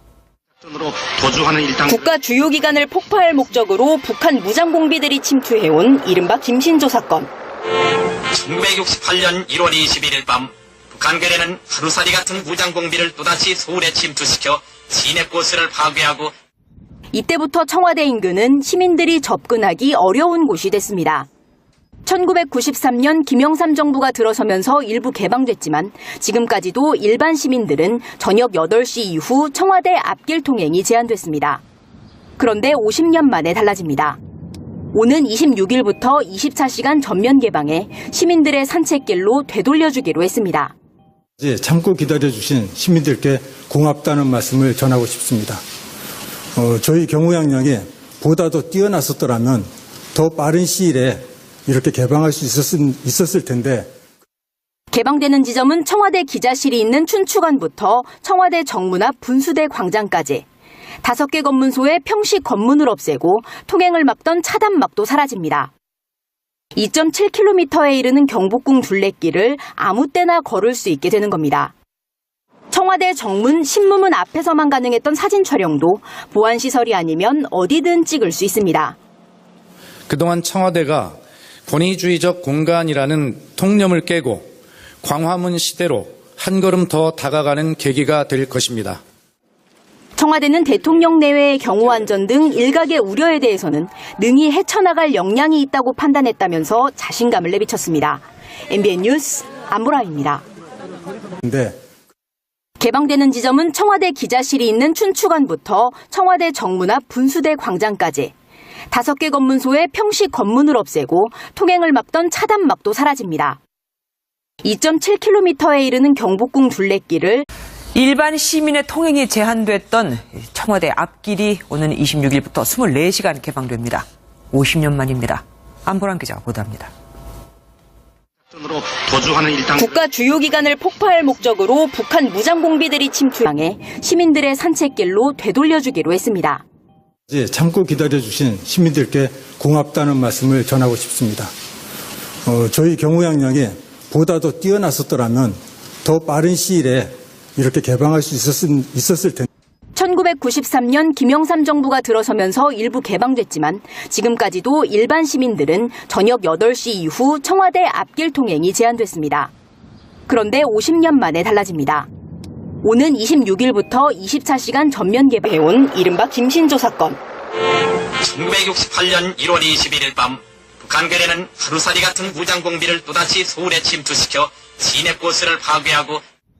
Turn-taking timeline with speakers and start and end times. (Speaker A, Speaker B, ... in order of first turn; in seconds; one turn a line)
Speaker A: 0.6-2.1
Speaker B: 1.9-7.3
Speaker C: 8.3-16.3
Speaker B: 17.1-21.3
Speaker B: 22.1-31.6
Speaker B: 32.4-34.2
Speaker B: 34.9-40.7
Speaker D: 41.4-45.6
Speaker D: 46.5-53.9
Speaker B: 54.9-60.5
Speaker B: 61.0-65.7
Speaker B: 66.8-71.7
Speaker B: 72.7-79.0
Speaker E: 80.1-84.5
Speaker E: 85.0-89.0
Speaker B: 90.2-100.4
Speaker D: 101.4-101.8
Speaker B: 102.8-108.3
Speaker B: 108.9-113.6
Speaker B: 114.6-117.5
Speaker F: 117.9-126.9
Speaker A: 128.5-130.0
Speaker B: 129.8-136.6
Speaker D: 137.3-141.5
Speaker D: 142.4-149.5
Speaker B: 149.9-159.5
Speaker B: 160.3-162.1
Speaker B: 162.8-167.2
Speaker C: 168.2-176.2